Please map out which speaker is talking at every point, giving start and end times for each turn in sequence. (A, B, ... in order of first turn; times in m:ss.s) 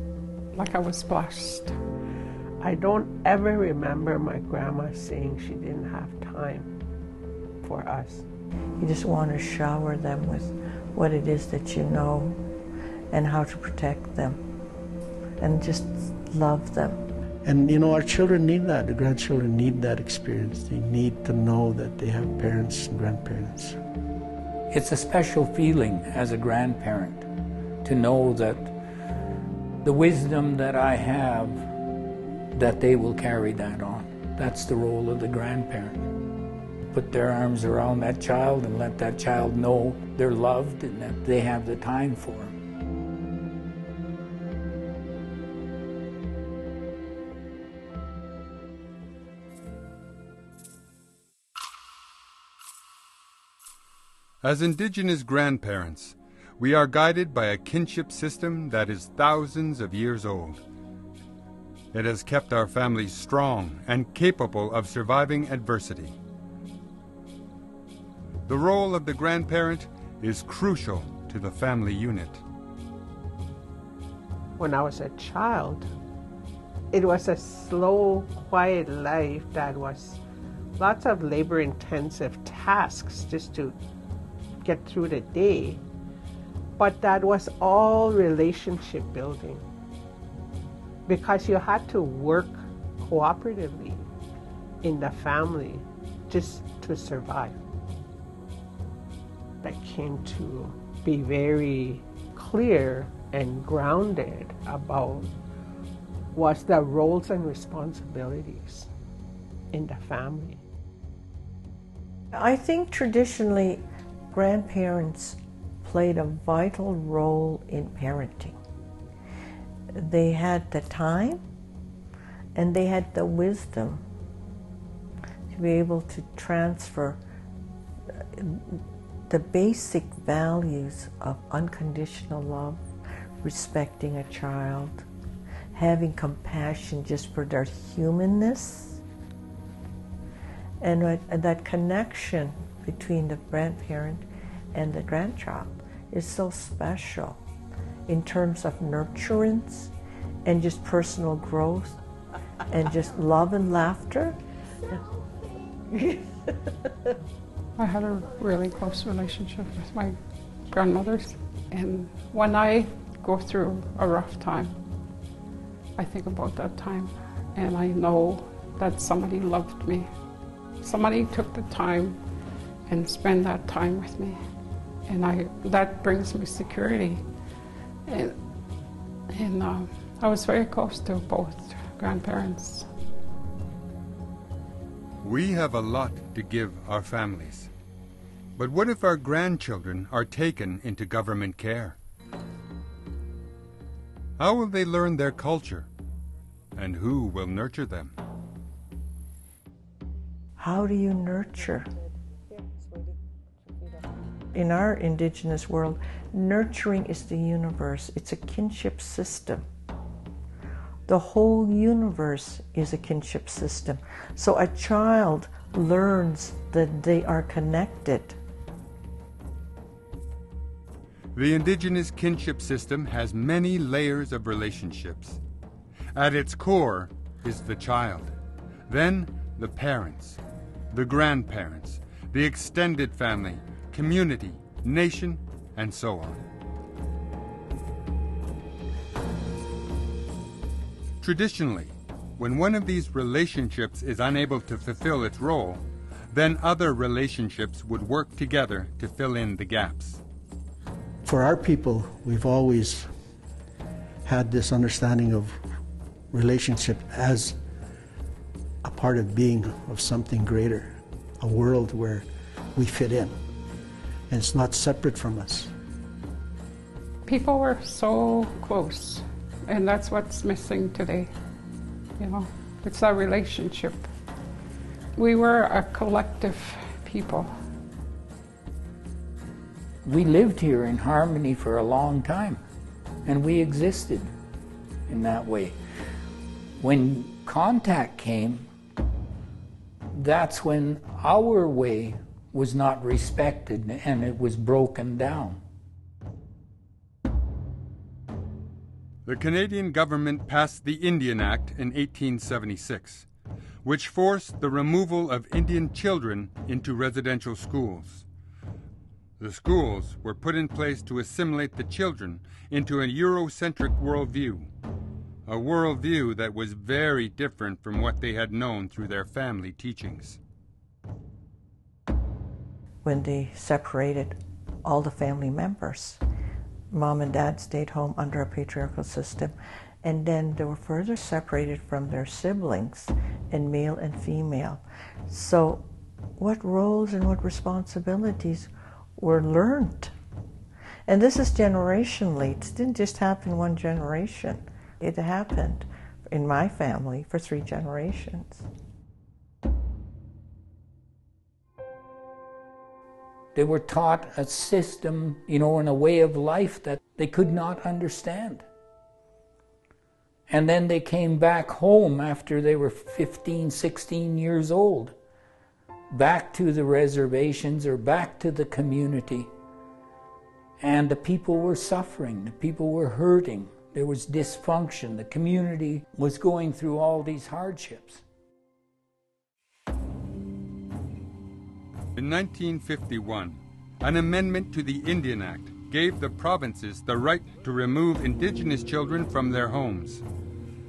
0:00.5-0:01.8 A
0:02.6-0:06.7 B
0:07.6-0:08.2 B
0:08.8-0:12.4 C
0:13.1-0:14.4 C
0:15.4-0:17.0 C
0:17.4-0:23.8 D
0:24.7-0:27.3 E
0:27.8-0:28.7 E
0:29.8-0:31.7 E
0:32.5-0:36.0 E
0:36.9-0:42.5 E
0:54.4-1:00.6 F
1:01.9-1:06.2 F
1:08.5-1:12.4 F
1:14.6-1:15.9 B
1:16.9-1:20.2 B
1:20.8-1:23.8 B
1:24.6-1:25.8 B
1:26.8-1:29.6 B
1:31.1-1:34.1 B
1:34.8-1:37.6 B
1:39.6-1:45.3 B
1:46.3-1:48.9 B
1:49.7-1:50.6 B
1:52.3-1:58.6 C
1:59.9-2:01.4 C
2:02.6-2:04.0 C
2:05.5-2:07.2 C
2:08.1-2:12.8 C
2:13.4-2:15.1 C
2:15.7-2:19.0 C
2:20.8-2:27.4 C
2:28.1-2:29.9 C
2:30.4-2:32.0 C
2:32.7-2:34.4 C
2:37.8-2:44.7 A
2:46.0-2:50.1 A
2:50.8-2:52.2 A
2:52.9-2:54.4 A
2:55.0-2:57.2 A
2:58.1-2:58.4 A
2:59.3-3:02.9 A
3:05.2-3:07.7 F
3:08.6-3:12.0 F
3:14.4-3:15.9 F
3:16.7-3:18.1 F
3:20.6-3:21.9 C
3:24.5-3:29.6 C
3:31.1-3:38.4 C
3:41.3-3:45.4 F
3:46.1-3:48.3 F
3:48.9-3:50.4 F
3:50.9-3:56.4 F
4:01.2-4:10.2 F
4:11.2-4:13.1 D
4:14.2-4:15.6 D
4:16.3-4:17.6 D
4:18.8-4:23.4 D
4:24.3-4:25.7 D
4:27.2-4:31.3 A
4:32.2-4:34.1 A
4:35.2-4:37.5 A
4:40.0-4:42.6 E
4:43.2-4:44.3 E
4:45.1-4:45.8 E
4:46.8-4:48.6 E
4:50.1-4:55.6 E
4:59.2-5:03.2 F
5:03.8-5:08.2 F
5:09.4-5:14.7 F
5:15.4-5:20.4 F
5:23.0-5:26.2 C
5:26.9-5:40.1 C
5:41.1-5:48.6 C
5:53.5-5:58.7 E
6:00.5-6:05.2 E
6:06.1-6:09.5 E
6:10.8-6:18.2 E
6:22.2-6:30.2 F